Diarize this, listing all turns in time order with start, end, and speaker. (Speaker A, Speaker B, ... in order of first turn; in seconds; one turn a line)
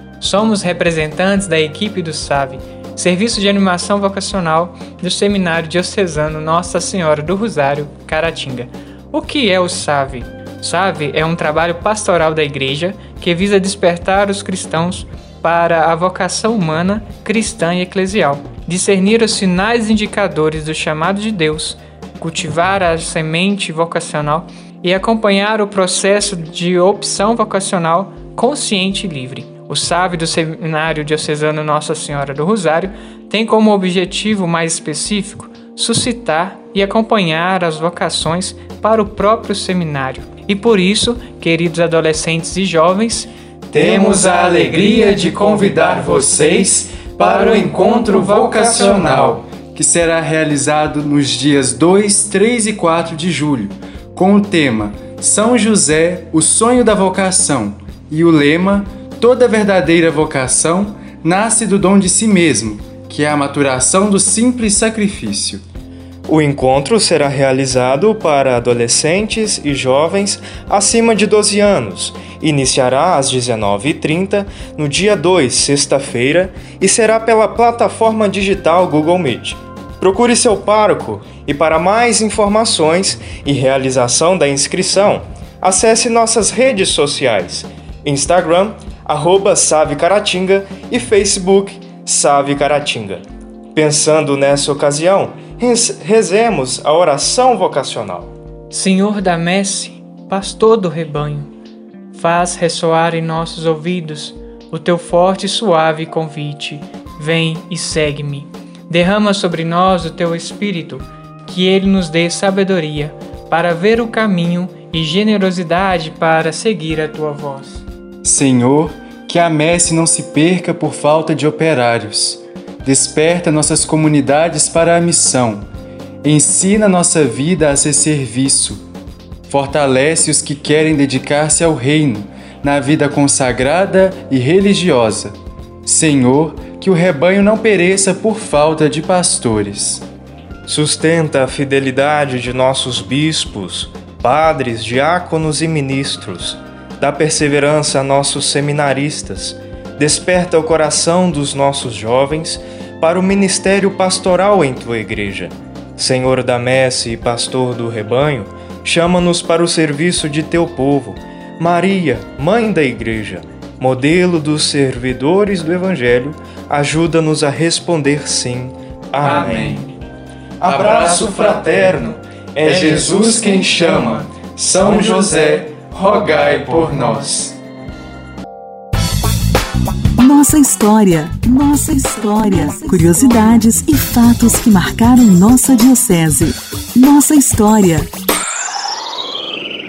Speaker A: 0.2-46.3
Speaker B: 43.7-65.6
Speaker A: 47.2-49.4
Speaker C: 66.3-93.2
Speaker C: 93.7-98.3
Speaker A: 98.7-101.5
Speaker A: 102.1-117.8
Speaker B: 118.2-125.7
Speaker B: 126.2-128.8
Speaker B: 129.5-140.0
Speaker C: 140.7-169.8
Speaker B: 169.3-169.8
Speaker A: 169.3-169.6
Speaker C: 170.6-175.6
Speaker B: 170.7-171.6
Speaker B: 172.7-174.1
Speaker B: 174.6-177.5
Speaker D: 180.2-188.1